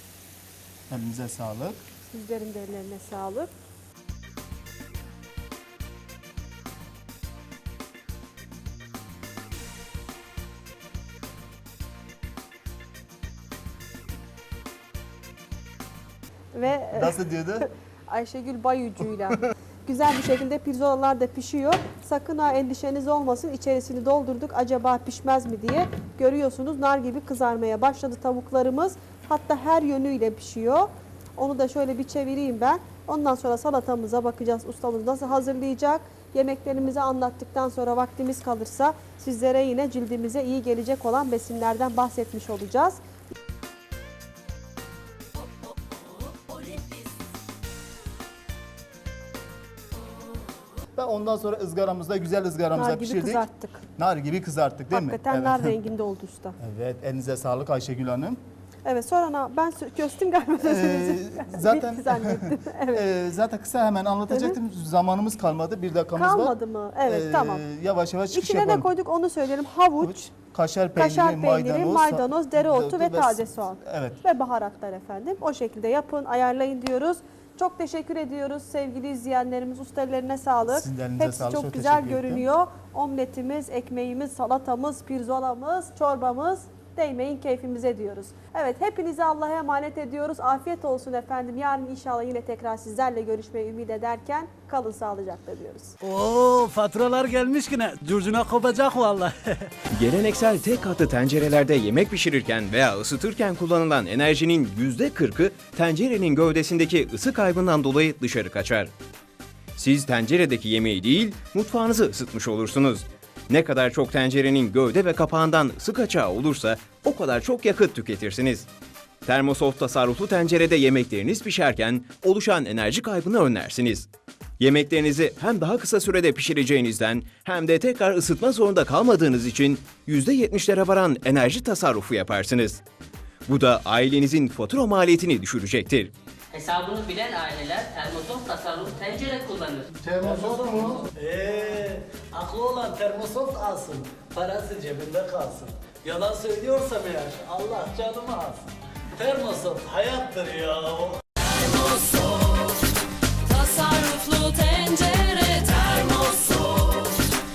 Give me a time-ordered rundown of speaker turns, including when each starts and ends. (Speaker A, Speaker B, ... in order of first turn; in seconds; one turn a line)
Speaker A: 0.9-1.8
Speaker B: 2.1-3.5
Speaker B: 16.5-17.2
Speaker A: 16.9-17.7
Speaker B: 18.1-43.0
Speaker A: 51.0-53.5
Speaker B: 52.7-53.8
Speaker A: 54.0-55.8
Speaker B: 54.9-56.6
Speaker A: 56.6-58.4
Speaker B: 58.9-63.1
Speaker A: 60.6-68.9
Speaker B: 64.3-64.6
Speaker B: 66.1-67.6
Speaker B: 68.3-70.3
Speaker A: 70.0-74.2
Speaker B: 71.0-95.9
Speaker A: 80.7-82.5
Speaker C: 96.0-99.7
Speaker D: 100.0-108.9
Speaker D: 109.8-118.7
Speaker D: 119.3-124.1
Speaker D: 124.6-132.8
Speaker D: 133.5-136.1
Speaker E: 136.5-139.9
Speaker C: 140.0-151.2
Speaker A: 140.2-141.0
Speaker E: 140.7-141.1
Speaker E: 151.4-152.8
Speaker C: 152.0-152.3
Speaker E: 153.5-156.0
Speaker C: 155.9-157.0